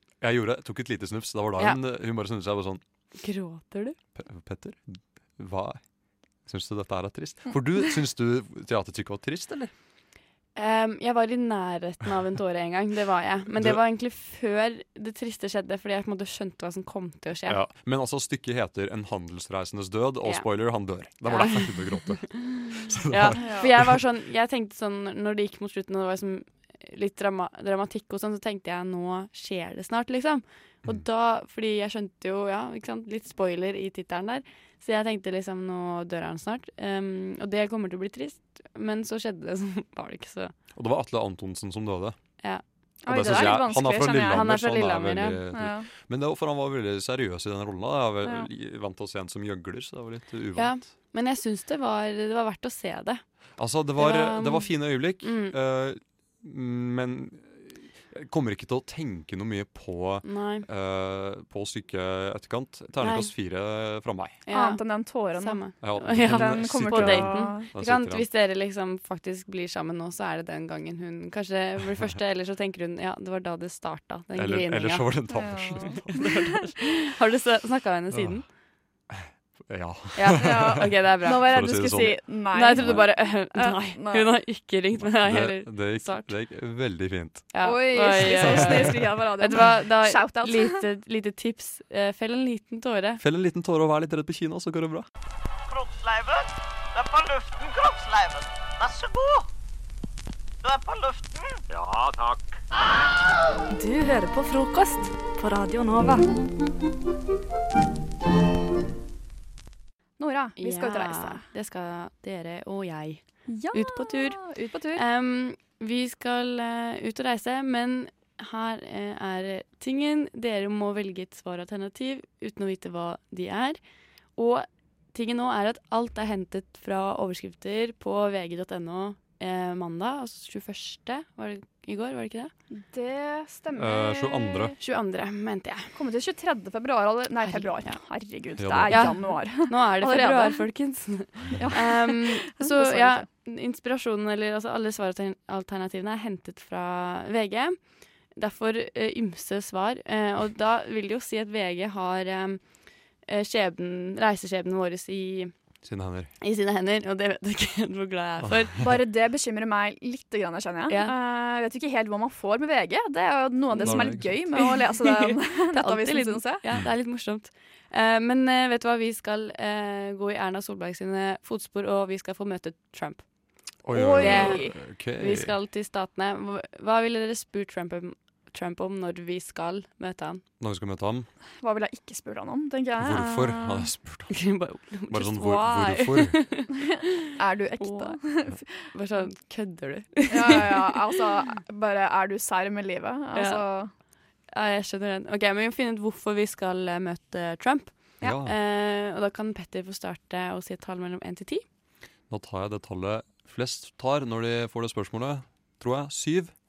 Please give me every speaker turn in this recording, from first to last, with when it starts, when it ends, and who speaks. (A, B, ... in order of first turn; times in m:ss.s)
0:00.2-0:02.8 A
0:03.2-0:04.0 B
0:04.2-0:05.8 A
0:06.4-0:09.7 A
0:10.6-0:17.6 B
0:13.5-0:13.8 A
0:17.5-0:23.9 A
0:21.3-0:21.7 B
0:23.1-0:40.5 B
0:23.4-0:23.7 C
0:40.7-0:42.2 A
0:42.4-0:43.7 B
0:43.0-0:44.5 C
0:43.1-0:50.9 A
0:44.3-0:45.4 B
0:45.5-0:45.9 C
0:50.6-0:53.2 B
0:53.6-1:04.4 A
0:54.0-0:55.5 B
1:00.2-1:00.6 B
1:03.0-1:03.3 B
1:04.5-1:04.8 B
1:04.5-1:07.7 C
1:05.4-1:15.2 B
1:05.8-1:08.2 A
1:14.3-1:16.1 A
1:15.3-1:16.3 C
1:16.1-1:18.4 B
1:18.1-1:18.4 A
1:19.1-1:23.0 A
1:20.1-1:22.0 B
1:20.4-1:24.3 C
1:22.5-1:26.3 B
1:25.0-1:27.5 A
1:27.5-1:33.2 B
1:27.6-1:30.8 C
1:28.1-1:29.1 A
1:33.2-1:35.0 A
1:35.8-1:36.2 D
1:37.0-1:39.3 D
1:40.6-1:41.2 D
1:43.8-1:46.2 E
1:50.2-1:51.4 C
1:50.6-1:54.4 B
1:53.5-1:55.0 C
1:54.9-2:03.8 B
2:04.4-2:12.5 B
2:12.7-2:14.7 C
2:13.7-2:14.7 A
2:14.8-2:15.9 B
2:15.9-2:20.6 C
2:17.4-2:18.0 B
2:18.6-2:19.2 A
2:18.9-2:27.8 B
2:21.5-2:23.2 C
2:28.4-2:32.6 B
2:33.2-2:35.5 B
2:35.8-2:36.3 A
2:36.4-2:38.8 B
2:38.8-2:46.6 C
2:40.9-2:41.1 B
2:43.8-2:44.4 A
2:43.8-2:53.2 B
2:53.8-2:55.5 A
2:53.9-2:54.7 C
2:54.2-3:00.4 B
3:00.6-3:01.3 A
3:01.6-3:03.9 C
3:03.0-3:04.4 A
3:04.3-3:06.9 B
3:05.1-3:06.4 A
3:07.4-3:08.9 C
3:07.8-3:08.2 B
3:08.9-3:10.9 B
3:10.3-3:13.9 C
3:13.3-3:13.6 B
3:14.5-3:21.6 B
3:18.2-3:18.5 A
3:22.3-3:26.5 A